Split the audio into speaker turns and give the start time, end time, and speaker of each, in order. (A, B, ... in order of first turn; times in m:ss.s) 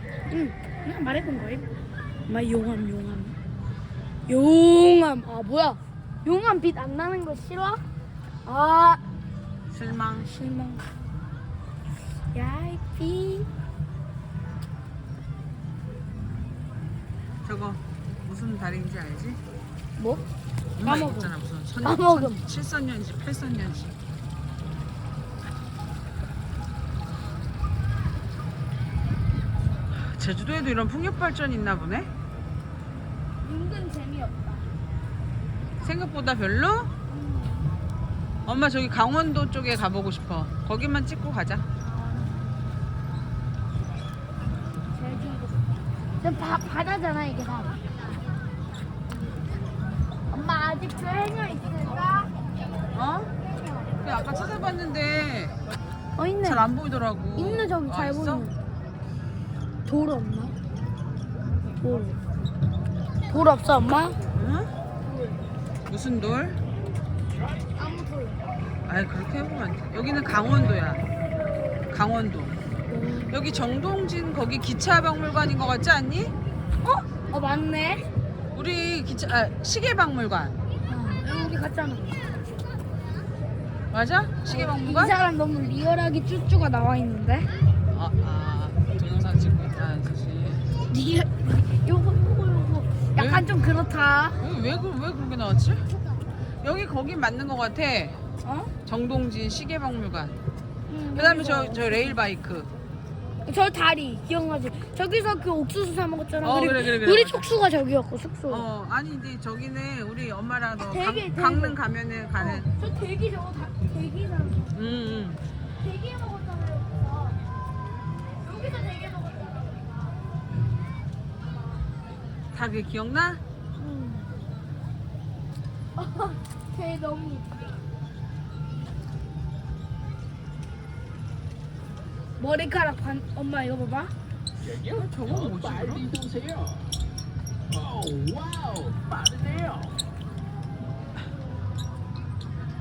0:00.3-0:01.7 A
0:02.3-0:03.4 A
0:04.3-0:07.8 A
0:08.4-0:09.0 A
0:09.7-0:10.3 B
0:10.2-0:10.8 A
0:12.3-0:13.5 A
0:17.4-0:19.4 B
0:20.0-0:20.2 A
0:20.8-0:24.0 B
0:20.8-0:21.3 A
0:21.8-0:22.4 A
0:29.9-0:32.1 B
0:33.4-0:34.7 A
0:35.8-0:36.9 B
0:37.1-0:37.7 A
0:38.4-0:41.6 B
0:41.8-0:42.6 A
0:44.9-0:45.6 A
0:46.2-0:47.8 A
0:50.3-0:52.3 A
0:52.9-0:53.3 B
0:53.6-0:53.9 A
0:54.0-0:55.6 B
0:56.2-0:56.7 A
0:56.4-0:58.5 B
0:57.3-0:58.5 A
0:59.8-1:00.5 A
1:01.8-1:02.2 A
1:03.3-1:04.2 A
1:04.3-1:04.7 B
1:05.0-1:05.4 A
1:05.9-1:06.6 B
1:07.7-1:08.4 A
1:08.8-1:11.0 B
1:11.9-1:12.6 B
1:12.9-1:13.4 A
1:13.3-1:16.3 B
1:16.8-1:18.1 A
1:18.5-1:20.6 B
1:20.9-1:22.3 A
1:23.9-1:25.1 B
1:24.5-1:27.5 A
1:27.9-1:30.6 B
1:30.9-1:34.4 A
1:33.2-1:33.4 B
1:34.4-1:35.9 B
1:36.6-1:38.2 B
1:38.4-1:38.7 A
1:38.8-1:40.4 B
1:40.9-1:42.2 A
1:41.1-1:42.7 B
1:43.4-1:48.6 A
1:46.4-1:47.5 B
1:48.5-1:52.7 B
1:50.9-1:51.8 A
1:52.4-1:54.8 A
1:54.7-1:55.4 B
1:55.7-1:57.4 A
1:58.4-2:00.1 A
2:02.5-2:03.4 B
2:03.8-2:04.3 A
2:06.0-2:07.8 A
2:12.4-2:14.1 A
2:14.8-2:16.2 B